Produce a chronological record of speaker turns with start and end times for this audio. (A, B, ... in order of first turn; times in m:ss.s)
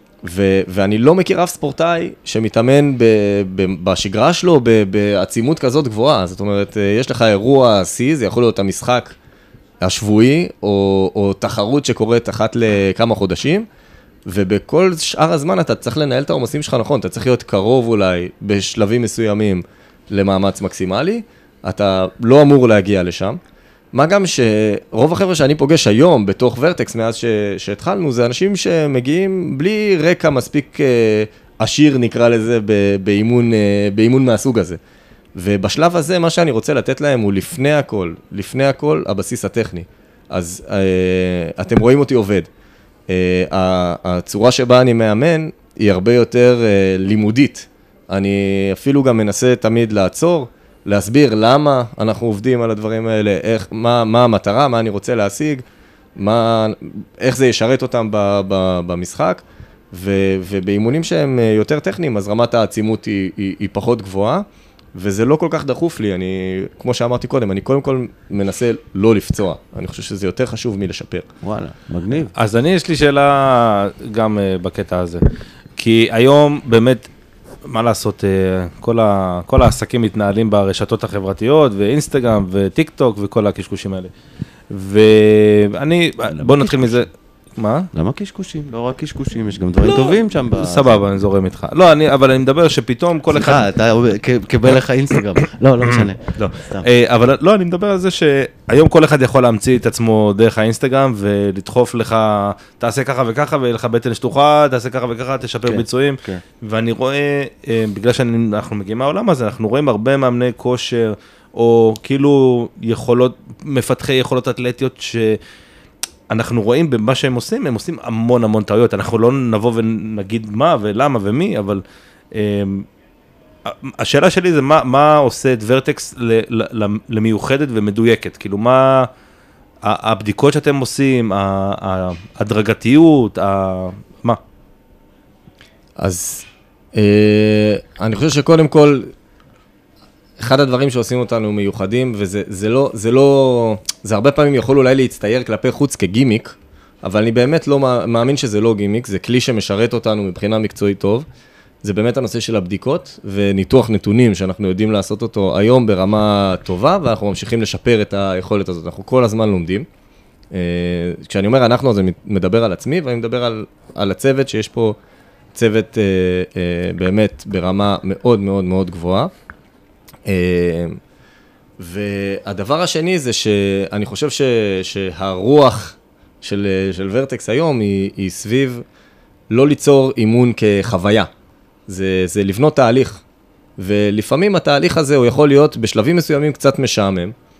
0:00.2-0:09.2 A
0:09.8-0:13.6 A
0:14.2-0:23.4 A
0:23.9-0:34.8 A
0:35.4-0:42.5 A
0:43.1-0:55.6 A
0:56.2-1:11.3 A
1:11.4-1:12.3 B
1:12.3-1:15.2 C
1:15.8-1:17.1 C
1:17.6-1:24.1 C
1:24.7-1:27.9 C
1:26.4-1:26.7 B
1:27.9-1:31.0 B
1:29.8-1:33.7 C
1:33.3-1:36.9 B
1:36.3-1:55.4 C
1:45.6-1:46.4 B
1:56.3-2:01.8 C
2:02.3-2:02.9 C
2:03.6-2:09.1 C
2:09.8-2:14.4 C
2:16.0-2:19.1 A
2:20.4-2:31.2 A
2:31.8-2:39.8 A
2:40.5-2:45.0 A
2:45.5-2:49.3 A
2:50.2-2:51.0 A
2:51.8-2:58.8 A
2:59.5-3:01.3 A
3:01.9-3:03.2 A
3:03.8-3:07.3 A